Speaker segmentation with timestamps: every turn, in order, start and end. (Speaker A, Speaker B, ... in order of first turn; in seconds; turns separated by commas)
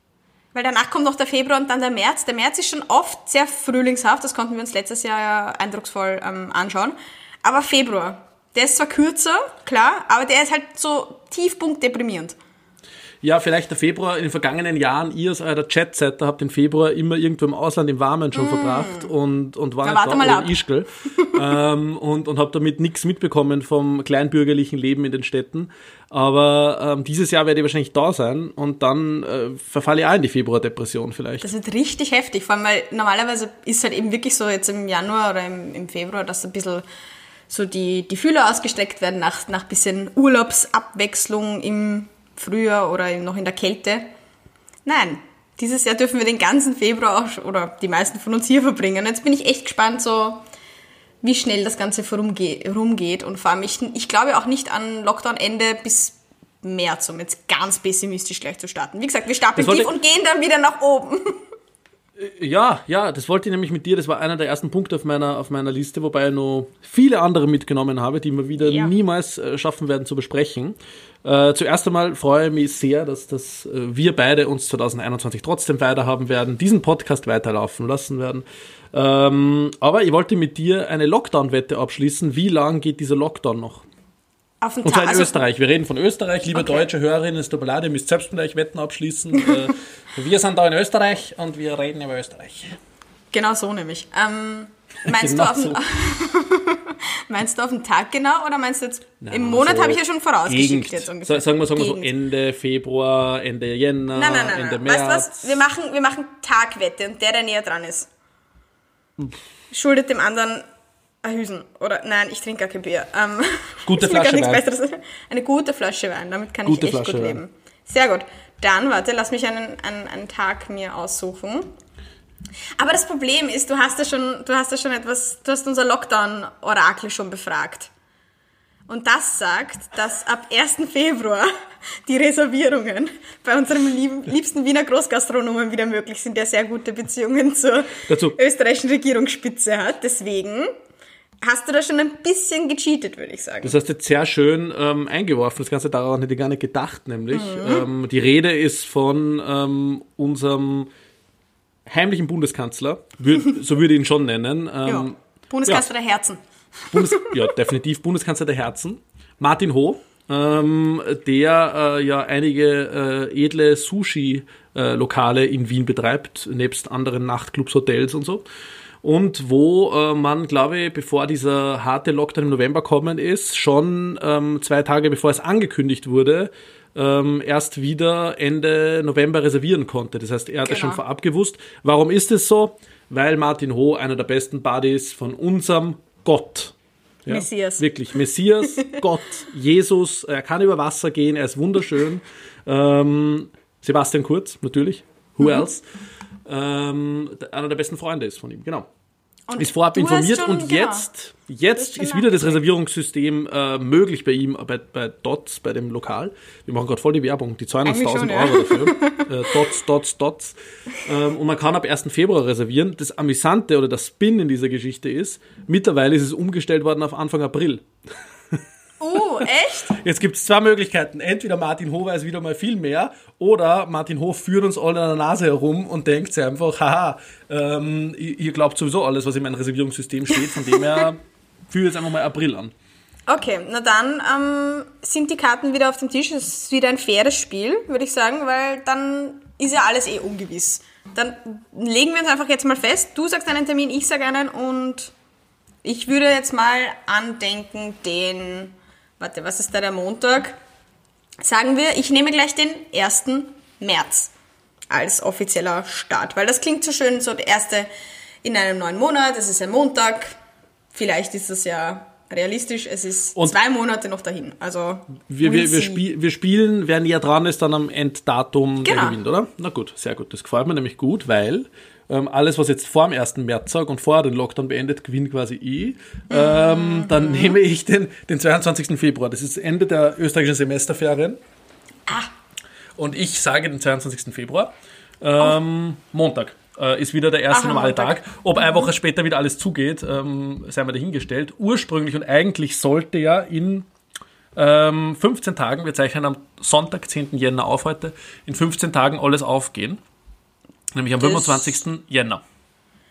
Speaker A: 0.5-12.3, Speaker B: 13.2-31.5, Speaker A: 18.3-19.1, Speaker A: 19.8-21.4, Speaker A: 31.4-36.8, Speaker A: 37.5-44.1, Speaker A: 44.9-50.4, Speaker A: 51.2-61.4, Speaker B: 59.5-59.9, Speaker B: 62.2-83.8, Speaker A: 68.6-68.9, Speaker A: 84.6-85.4, Speaker B: 84.8-92.8, Speaker A: 93.3-102.1, Speaker B: 95.0-95.8, Speaker B: 99.2-105.6, Speaker A: 104.1-108.1, Speaker A: 109.7-110.7, Speaker A: 111.2-121.7, Speaker B: 113.8-114.6, Speaker B: 116.6-117.4, Speaker A: 122.8-127.9, Speaker A: 128.9-131.5, Speaker A: 132.1-140.7, Speaker B: 138.1-138.4, Speaker A: 141.4-143.7, Speaker B: 143.6-150.9, Speaker A: 147.3-147.8, Speaker B: 151.8-155.1, Speaker A: 154.8-157.4, Speaker B: 156.9-168.4, Speaker B: 169.0-195.8, Speaker A: 180.6-181.0, Speaker A: 187.3-187.8, Speaker A: 195.4-195.6, Speaker B: 196.5-198.9, Speaker A: 199.5-201.1, Speaker B: 199.6-217.9, Speaker A: 201.8-202.6, Speaker A: 207.8-209.3, Speaker A: 219.0-220.0, Speaker B: 219.4-232.7, Speaker A: 230.7-231.0, Speaker A: 233.3-245.1, Speaker A: 245.8-250.6, Speaker A: 251.4-254.3, Speaker A: 254.9-257.9, Speaker A: 258.4-260.3, Speaker A: 260.9-266.0, Speaker B: 265.3-281.4, Speaker A: 268.8-269.2, Speaker A: 276.3-277.6, Speaker B: 283.0-293.9, Speaker A: 287.5-288.9, Speaker B: 294.5-300.0, Speaker B: 300.9-302.4, Speaker A: 301.2-301.8